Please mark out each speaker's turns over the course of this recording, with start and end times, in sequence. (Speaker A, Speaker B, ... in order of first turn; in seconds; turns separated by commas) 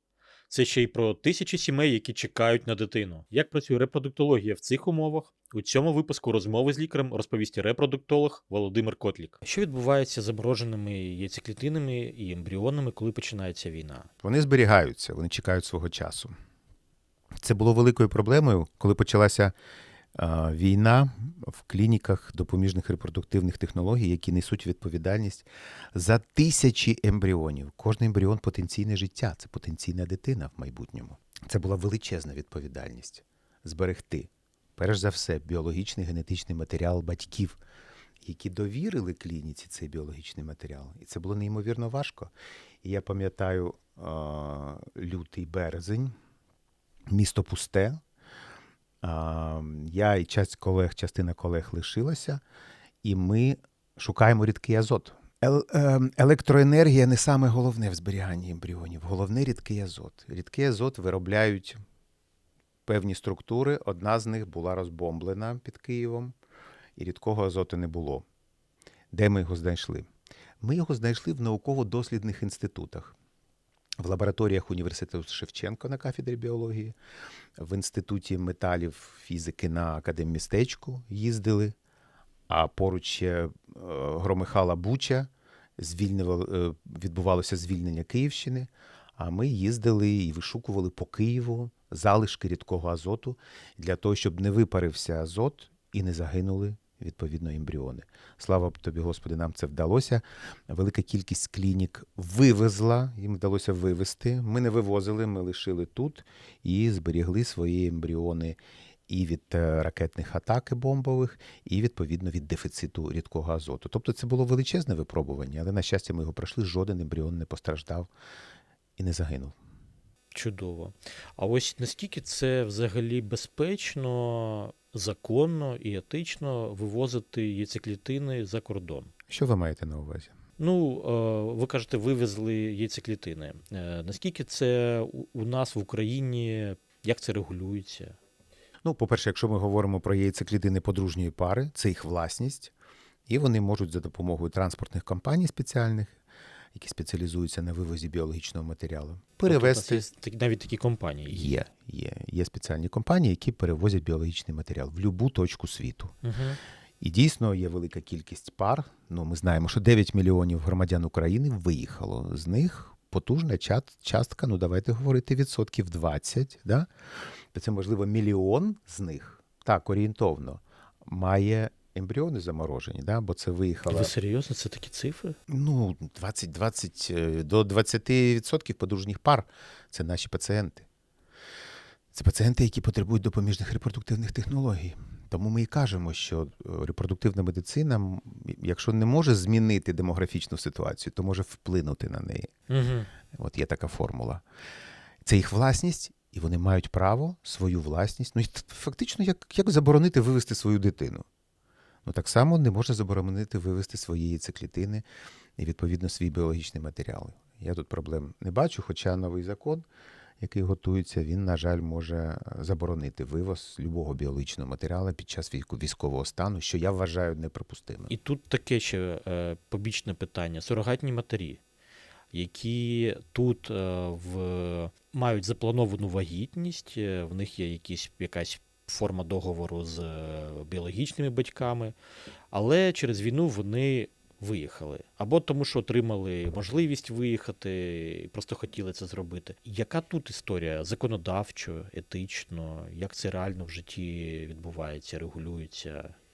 Speaker A: 0.5-14.1, Speaker B: 14.2-16.3, Speaker B: 17.4-19.5, Speaker B: 20.1-37.6, Speaker B: 38.2-46.1, Speaker B: 47.1-48.0, Speaker B: 49.0-52.4, Speaker B: 53.0-61.8, Speaker B: 62.9-66.3, Speaker B: 67.0-68.2, Speaker B: 69.1-70.1, Speaker B: 70.6-73.1, Speaker B: 74.0-77.0, Speaker B: 77.6-81.7, Speaker B: 82.5-118.1, Speaker B: 119.0-119.5, Speaker A: 120.3-129.1, Speaker B: 129.3-130.3, Speaker A: 130.6-138.2, Speaker B: 138.8-142.7, Speaker B: 143.3-146.2, Speaker B: 146.7-150.0, Speaker A: 149.4-151.6, Speaker B: 151.3-156.1, Speaker A: 156.2-156.6, Speaker B: 157.0-166.9, Speaker B: 167.5-174.1, Speaker A: 173.9-175.4, Speaker B: 175.5-180.9, Speaker B: 182.1-192.5, Speaker A: 192.7-193.1, Speaker B: 193.3-194.4, Speaker B: 195.2-201.2, Speaker B: 202.0-205.0, Speaker B: 205.6-209.8, Speaker B: 210.4-218.1, Speaker A: 218.1-221.6, Speaker A: 222.3-231.9, Speaker A: 232.5-246.1